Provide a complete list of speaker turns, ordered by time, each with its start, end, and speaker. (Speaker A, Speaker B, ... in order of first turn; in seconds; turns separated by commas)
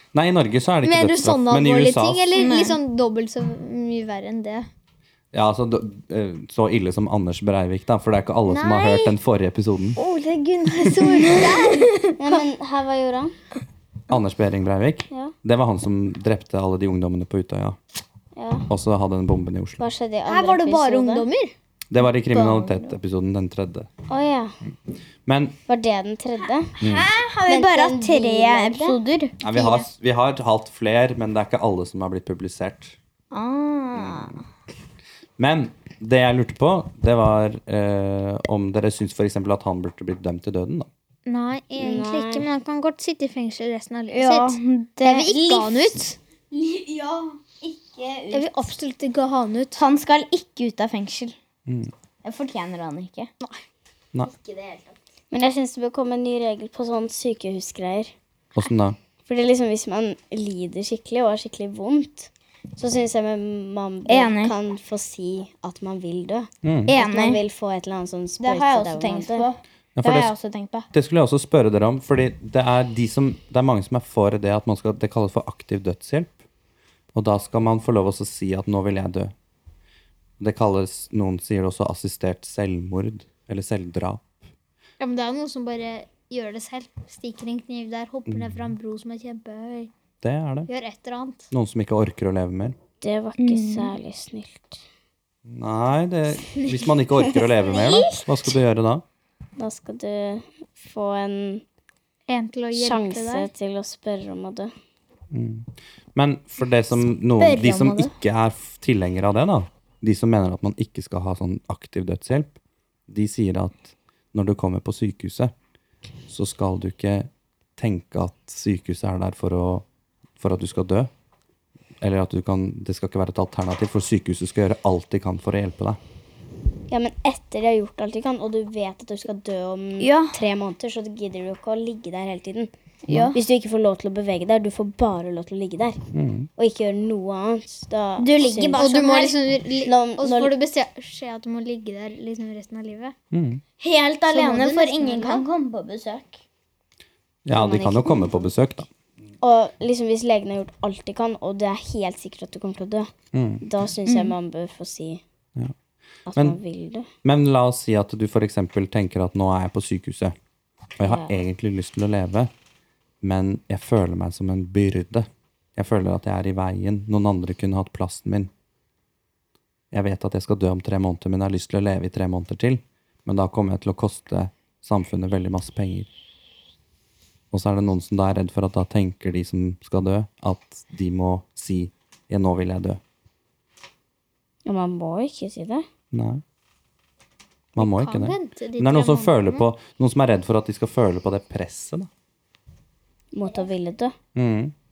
Speaker A: 0.1-2.5, Speaker B: 0.8-4.7, Speaker C: 2.3-2.8, Speaker A: 5.3-10.0, Speaker B: 8.5-9.1, Speaker B: 10.0-12.0, Speaker C: 11.0-12.1, Speaker D: 12.2-13.3, Speaker A: 14.1-17.8, Speaker D: 18.3-18.7, Speaker A: 18.7-19.8, Speaker D: 19.8-21.3, Speaker B: 20.2-21.5, Speaker A: 21.9-23.9, Speaker C: 22.3-22.9, Speaker D: 24.1-24.6, Speaker A: 25.2-25.6, Speaker D: 25.7-26.8, Speaker C: 26.8-29.9, Speaker A: 26.8-27.1, Speaker D: 27.4-29.0, Speaker A: 29.4-33.0, Speaker C: 33.3-34.4, Speaker A: 33.9-34.3, Speaker A: 35.4-40.9, Speaker B: 41.2-46.2, Speaker D: 41.8-42.5, Speaker C: 44.1-46.0, Speaker C: 46.5-48.7, Speaker B: 48.3-49.8, Speaker C: 49.8-51.3, Speaker A: 51.7-51.9, Speaker C: 52.2-53.3, Speaker C: 54.2-54.9, Speaker D: 55.3-58.1, Speaker A: 58.5-59.0, Speaker D: 59.2-69.5, Speaker C: 64.0-64.5, Speaker A: 66.6-66.9, Speaker C: 66.9-67.4, Speaker C: 68.4-70.9, Speaker A: 70.0-70.3, Speaker A: 70.9-76.3, Speaker A: 77.1-79.3, Speaker A: 80.4-84.3, Speaker B: 85.0-89.9, Speaker A: 88.3-88.8, Speaker A: 90.2-90.7, Speaker B: 90.7-91.5, Speaker A: 91.5-92.8, Speaker D: 93.0-94.8, Speaker C: 93.4-93.9, Speaker A: 95.4-99.0, Speaker D: 97.3-98.2, Speaker D: 99.6-101.6, Speaker B: 102.3-103.5, Speaker D: 102.7-104.7, Speaker A: 105.3-112.5, Speaker C: 107.4-108.1, Speaker A: 113.1-115.5, Speaker A: 116.3-119.8, Speaker A: 120.4-121.1, Speaker A: 122.0-126.0, Speaker D: 126.9-132.7, Speaker C: 130.0-130.3, Speaker C: 133.1-133.4, Speaker D: 133.3-136.0, Speaker A: 136.1-136.5, Speaker D: 136.6-139.1, Speaker C: 138.2-139.4, Speaker B: 138.7-143.1, Speaker D: 139.8-140.5, Speaker A: 143.3-143.6, Speaker C: 143.8-146.4, Speaker B: 144.3-145.4, Speaker A: 147.4-148.9, Speaker D: 147.5-148.4, Speaker D: 149.4-155.2, Speaker A: 153.3-153.6, Speaker C: 154.1-154.3, Speaker D: 156.3-157.1, Speaker A: 157.2-160.3, Speaker A: 161.0-162.5, Speaker D: 161.0-161.3, Speaker A: 163.2-168.5, Speaker A: 169.9-176.1, Speaker A: 177.5-183.0, Speaker D: 184.7-185.8, Speaker A: 186.1-186.4, Speaker A: 187.8-192.1, Speaker B: 187.8-189.6, Speaker D: 193.3-194.2, Speaker A: 194.3-194.7